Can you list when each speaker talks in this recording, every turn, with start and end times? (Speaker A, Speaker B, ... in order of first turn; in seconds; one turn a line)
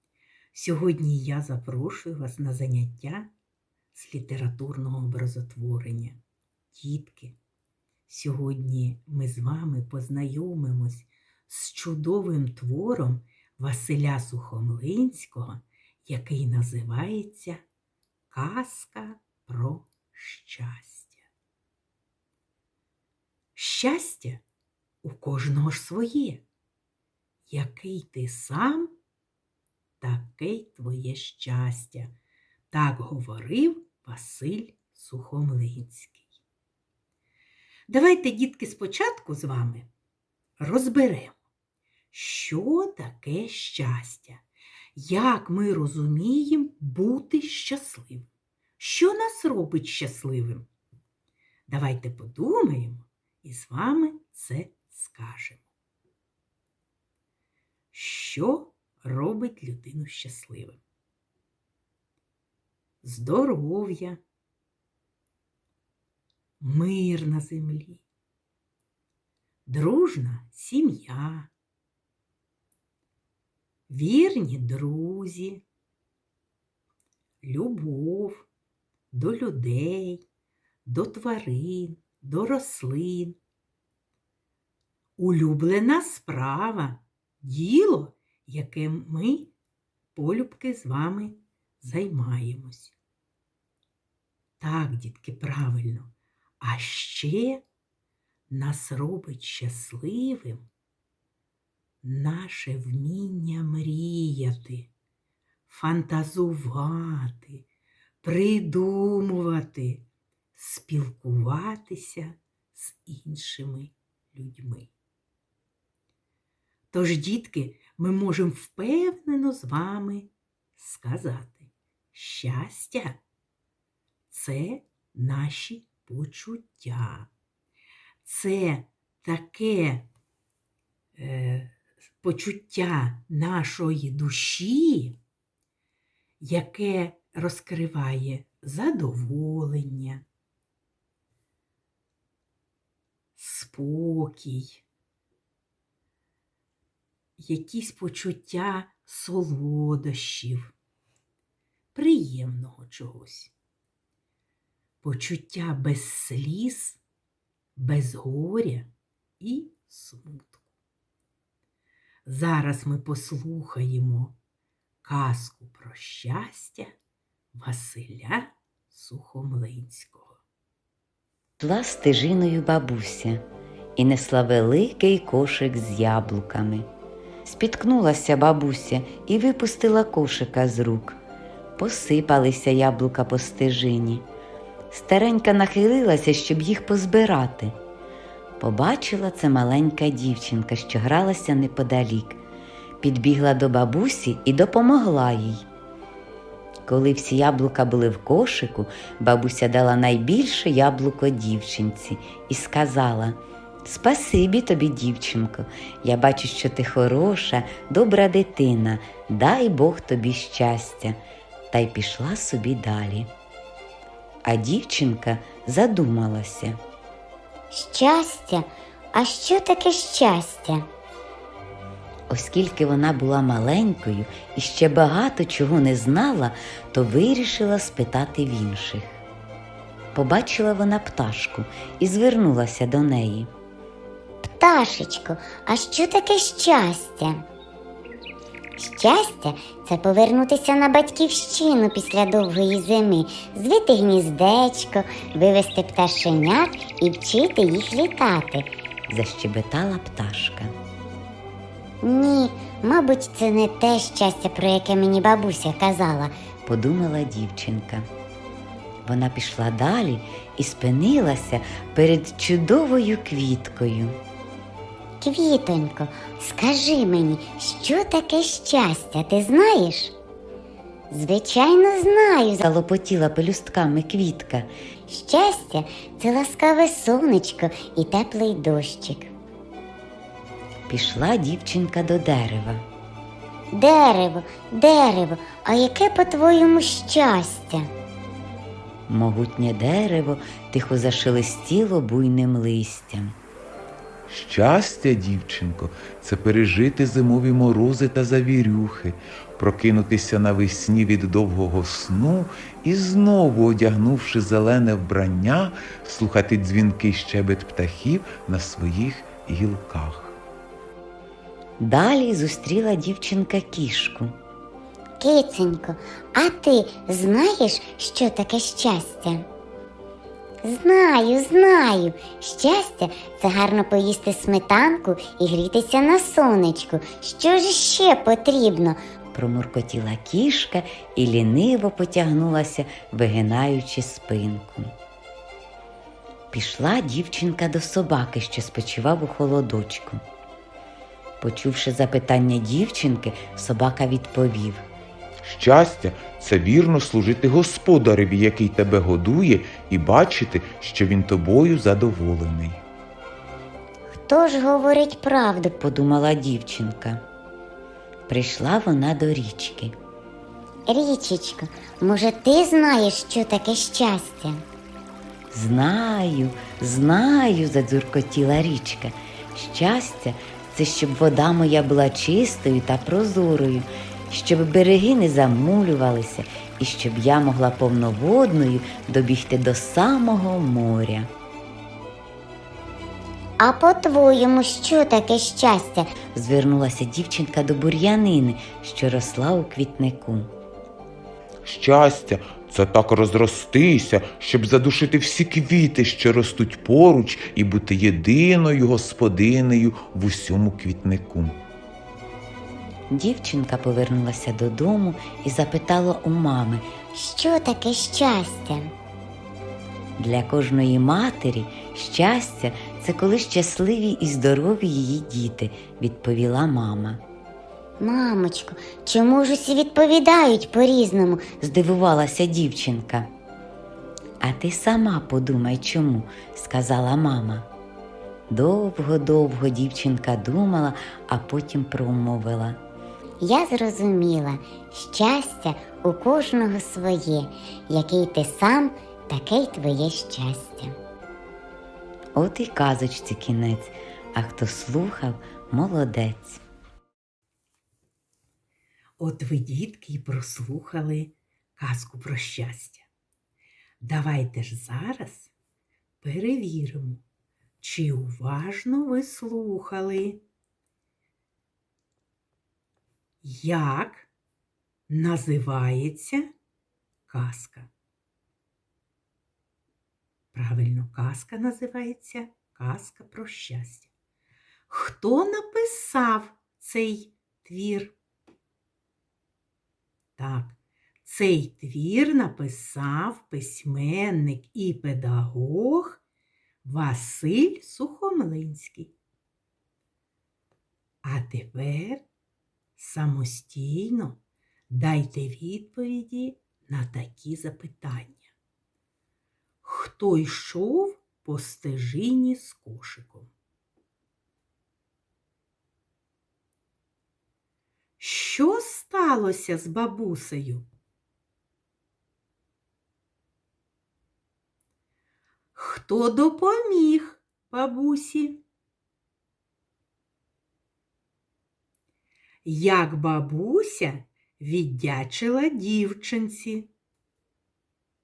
Speaker A: 0.5-3.3
Speaker A: 4.0-6.2
Speaker A: 6.7-7.4
Speaker A: 8.1-17.6
Speaker A: 18.3-21.2
Speaker A: 23.6-24.4
Speaker A: 25.0-26.4
Speaker A: 27.5-28.9
Speaker A: 30.0-32.1
Speaker A: 32.7-36.3
Speaker A: 37.9-39.9
Speaker A: 40.6-41.3
Speaker A: 42.1-44.4
Speaker A: 45.0-50.7
Speaker A: 51.7-55.6
Speaker A: 57.9-60.8
Speaker A: 63.0-64.2
Speaker A: 66.6-68.0
Speaker A: 69.7-71.5
Speaker A: 73.9-75.6
Speaker A: 77.4-78.5
Speaker A: 79.1-80.2
Speaker A: 80.9-83.4
Speaker A: 85.2-89.5
Speaker A: 90.2-93.0
Speaker A: 94.6-97.6
Speaker A: 98.5-100.7
Speaker A: 102.0-104.9
Speaker A: 105.7-107.7
Speaker A: 108.2-114.9
Speaker A: 116.9-123.2
Speaker A: 124.3-127.3
Speaker A: 128.2-130.1
Speaker A: 131.2-135.2
Speaker A: 136.4-140.2
Speaker A: 143.4-144.8
Speaker A: 147.4-150.7
Speaker A: 151.9-153.5
Speaker A: 155.0-157.0
Speaker A: 157.8-160.7
Speaker A: 162.3-164.4
Speaker A: 165.0-166.9
Speaker A: 167.6-170.4
Speaker B: 171.6-173.4
Speaker B: 174.0-176.9
Speaker B: 177.5-181.2
Speaker B: 181.8-184.2
Speaker B: 184.9-187.7
Speaker B: 188.6-192.4
Speaker B: 193.0-195.6
Speaker B: 196.9-211.2
Speaker B: 211.7-213.3
Speaker B: 214.5-216.8
Speaker C: 217.7-220.9
Speaker B: 222.3-229.2
Speaker B: 230.1-233.5
Speaker C: 234.4-237.4
Speaker C: 238.8-248.7
Speaker B: 249.1-250.7
Speaker C: 252.0-256.3
Speaker B: 256.7-258.0
Speaker B: 259.1-264.1
Speaker C: 265.2-270.1
Speaker C: 271.1-272.6
Speaker B: 272.6-274.7
Speaker C: 275.1-279.3
Speaker B: 280.9-282.8
Speaker C: 283.7-287.9
Speaker B: 289.1-293.3
Speaker D: 294.3-310.4
Speaker B: 311.8-314.3
Speaker C: 315.2-319.5
Speaker C: 320.6-329.0
Speaker B: 329.3-334.9
Speaker B: 336.5-340.2
Speaker B: 341.4-344.8
Speaker D: 345.4-352.8
Speaker C: 354.1-355.8
Speaker B: 355.8-357.2
Speaker B: 358.3-359.9
Speaker C: 360.9-364.6
Speaker B: 365.5-381.3
Speaker C: 383.6-386.1
Speaker B: 386.3-390.5
Speaker D: 391.6-401.6
Speaker B: 403.1-406.9
Speaker C: 407.1-408.9
Speaker B: 410.2-417.2
Speaker C: 418.0-421.5
Speaker B: 421.6-423.3
Speaker B: 424.4-427.7
Speaker B: 428.5-432.8
Speaker C: 433.4-441.0
Speaker B: 442.4-446.6
Speaker A: 449.2-453.1
Speaker A: 454.0-455.5
Speaker A: 456.2-457.2
Speaker A: 457.8-460.4
Speaker A: 463.4-464.3
Speaker A: 465.1-466.5
Speaker A: 467.3-467.9
Speaker A: 470.5-474.1
Speaker A: 474.9-478.2
Speaker A: 480.4-486.2
Speaker A: 486.8-489.1
Speaker A: 491.2-492.3
Speaker A: 493.0-498.5
Speaker A: 499.8-503.5
Speaker A: 508.2-510.9
Speaker A: 515.8-518.6
Speaker A: 522.6-526.9